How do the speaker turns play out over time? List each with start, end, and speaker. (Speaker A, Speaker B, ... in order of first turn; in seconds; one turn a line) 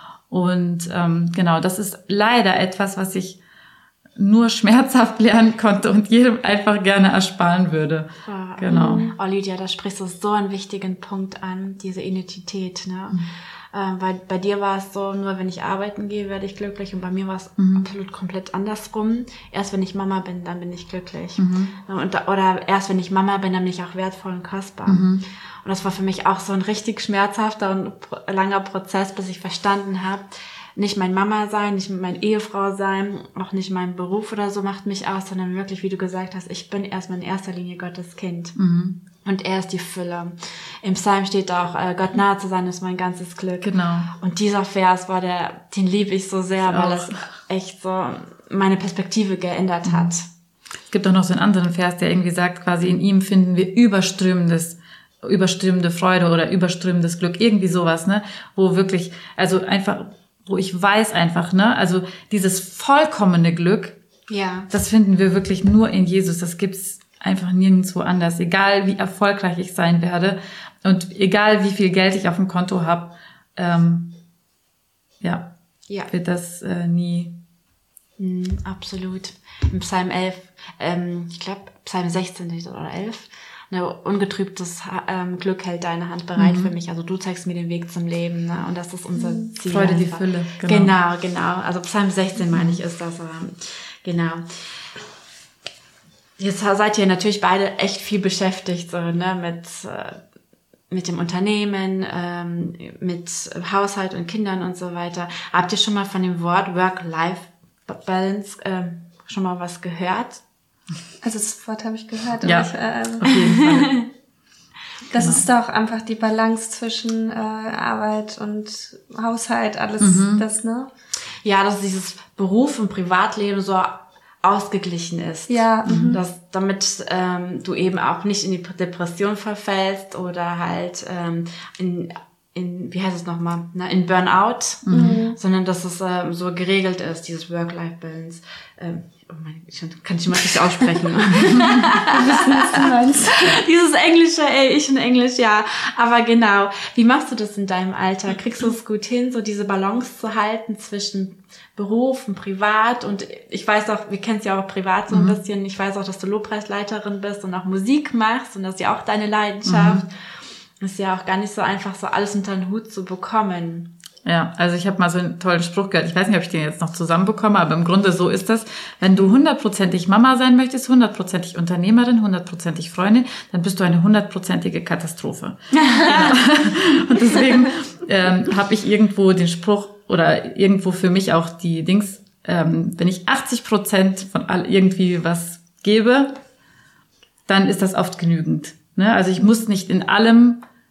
Speaker A: 0.3-3.4
Speaker A: 4.2-9.0
Speaker B: 8.3-25.1
Speaker C: 8.7-9.1
Speaker A: 17.6-17.9
Speaker A: 21.4-21.7
Speaker A: 24.9-25.2
Speaker B: 25.6-38.5
Speaker A: 38.5-39.0
Speaker B: 39.2-50.3
Speaker A: 43.6-44.1
Speaker A: 46.6-47.2
Speaker A: 49.8-50.1
Speaker A: 50.9-64.0
Speaker B: 64.3-64.7
Speaker A: 64.7-74.2
Speaker A: 75.2-75.5
Speaker A: 76.1-77.4
Speaker B: 78.2-94.4
Speaker A: 86.4-86.7
Speaker C: 89.2-89.5
Speaker A: 89.7-90.9
Speaker A: 92.5-92.8
Speaker B: 96.4-100.2
Speaker B: 100.9-110.4
Speaker C: 111.2-113.6
Speaker A: 112.4-114.1
Speaker B: 113.3-114.1
Speaker C: 115.1-120.9
Speaker A: 115.2-115.5
Speaker A: 120.0-120.5
Speaker B: 121.4-160.3
Speaker C: 125.5-126.2
Speaker A: 125.8-126.2
Speaker A: 134.9-135.2
Speaker C: 134.9-135.4
Speaker A: 141.4-141.8
Speaker C: 142.1-143.6
Speaker A: 155.1-155.4
Speaker A: 159.7-160.0
Speaker B: 160.8-163.9
Speaker A: 164.2-186.4
Speaker B: 169.1-169.4
Speaker B: 175.7-176.4
Speaker B: 177.3-177.7
Speaker A: 187.5-190.6